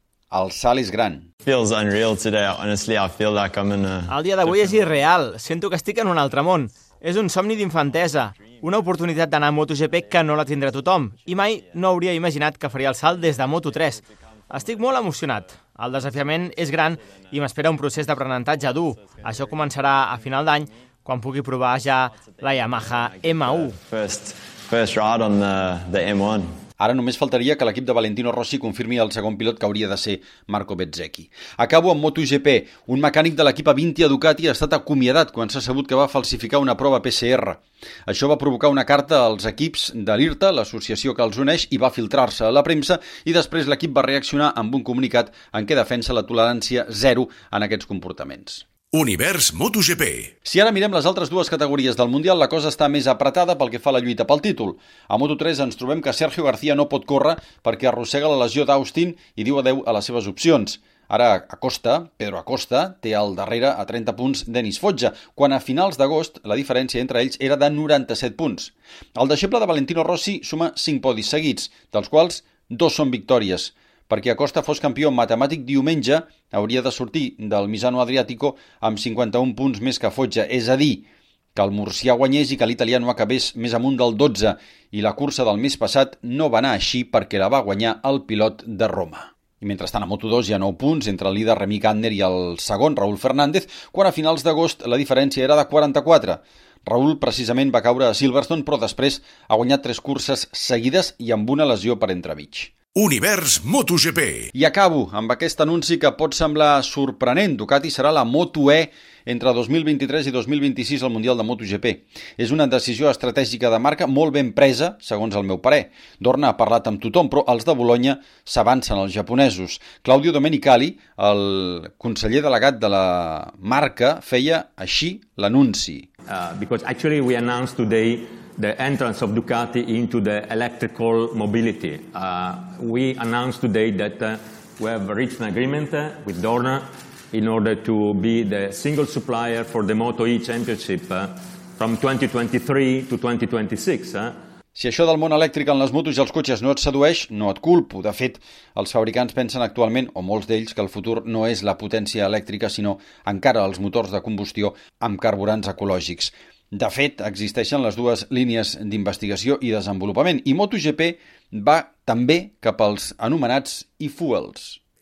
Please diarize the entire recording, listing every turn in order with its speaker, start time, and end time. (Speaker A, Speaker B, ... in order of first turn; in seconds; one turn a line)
Speaker A: 0.3-1.2
Speaker B: 1.4-4.1
Speaker C: 4.1-23.8
Speaker B: 19.4-20.6
Speaker B: 22.6-26.5
Speaker A: 26.8-48.6
Speaker D: 48.9-50.3
Speaker A: 50.4-102.7
Speaker D: 103.0-104.5
Speaker A: 104.5-126.1
Speaker E: 126.3-144.3
Speaker A: 144.8-164.8